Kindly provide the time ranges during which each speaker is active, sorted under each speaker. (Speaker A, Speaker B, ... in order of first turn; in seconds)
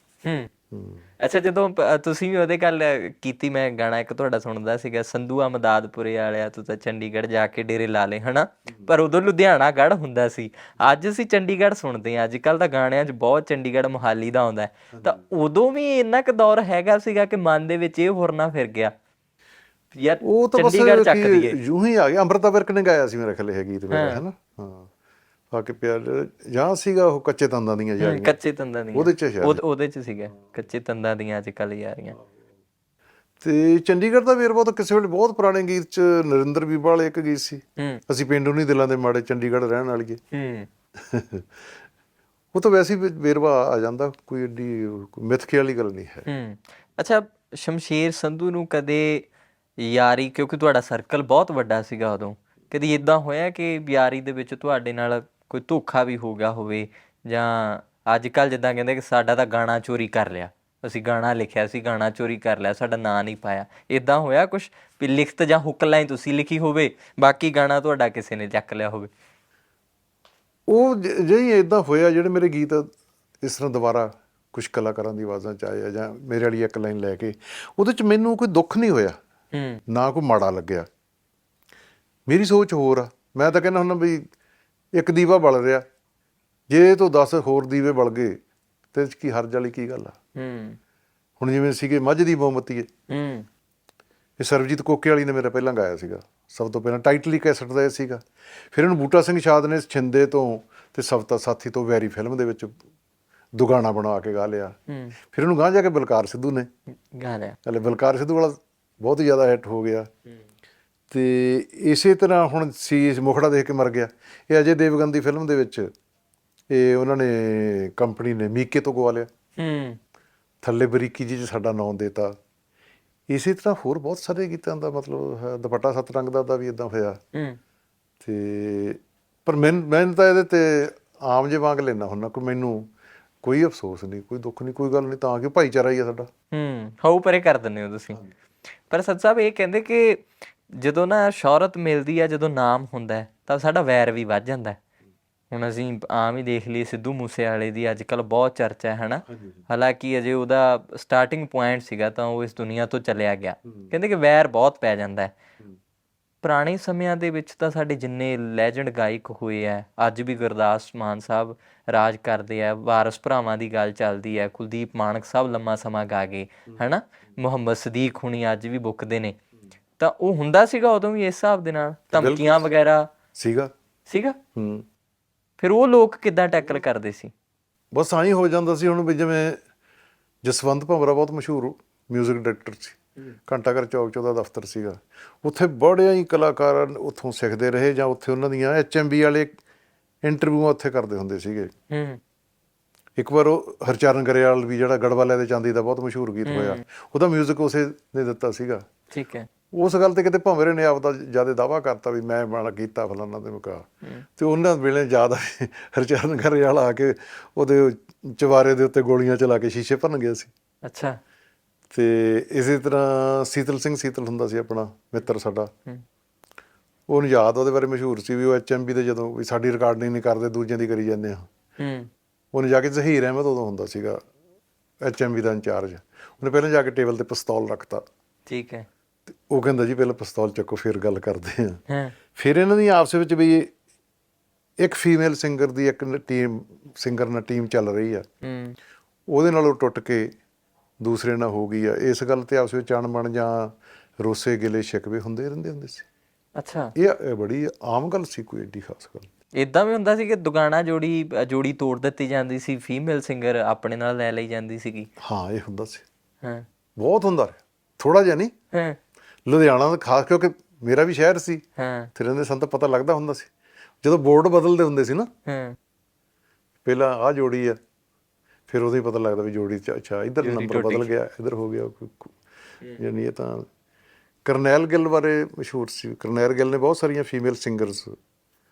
Speaker A: 0.2-0.5, 1.2-18.9, 19.9-21.6, 23.9-24.2, 28.0-32.1, 40.3-40.7, 46.3-49.3, 49.8-69.1, 79.5-79.8, 90.3-90.8, 93.1-93.5, 104.9-105.1, 107.1-107.6, 119.6-120.0, 127.3-127.6, 136.5-138.2, 138.9-144.8, 145.5-155.3, 156.4-169.3, 170.0-173.1, 174.1-174.3, 175.6-177.3, 191.9-192.2, 196.4-196.8, 199.1-199.5, 210.8-211.2, 221.8-222.1, 228.5-228.9, 231.9-232.1, 238.4-238.7, 246.6-246.9, 249.6-255.1, 258.7-259.0, 261.8-262.1, 265.4-265.8, 270.4-271.1
Speaker B: 0.7-1.0, 20.2-24.9, 25.5-28.4, 28.9-29.6, 33.4-40.2, 41.0-41.5, 42.5-46.2, 70.7-72.8, 73.4-79.2, 79.9-80.8, 82.3-84.2, 85.0-85.8, 86.7-88.3, 88.9-90.1, 91.4-92.9, 94.4-98.2, 98.7-102.7, 103.5-104.7, 105.3-106.7, 107.7-110.1, 111.1-115.9, 116.7-119.3, 120.6-122.3, 123.3-127.2, 128.2-132.8, 133.4-136.3, 149.3-149.6, 153.6-153.9, 172.1-172.7, 173.3-173.7, 174.6-174.8, 177.9-179.6, 180.4-189.5, 190.2-191.7, 193.2-198.8, 199.7-203.8, 204.4-210.5, 211.9-215.7, 217.1-221.4, 222.5-224.2, 225.0-228.0, 229.5-231.8, 232.3-233.7, 234.8-238.2, 239.3-240.3, 241.0-246.0, 247.0-249.3, 255.2-256.0, 257.0-258.5, 259.4-261.6, 262.1-263.5, 264.0-265.3, 266.8-267.7, 268.7-272.3, 273.0-273.7, 274.4-278.1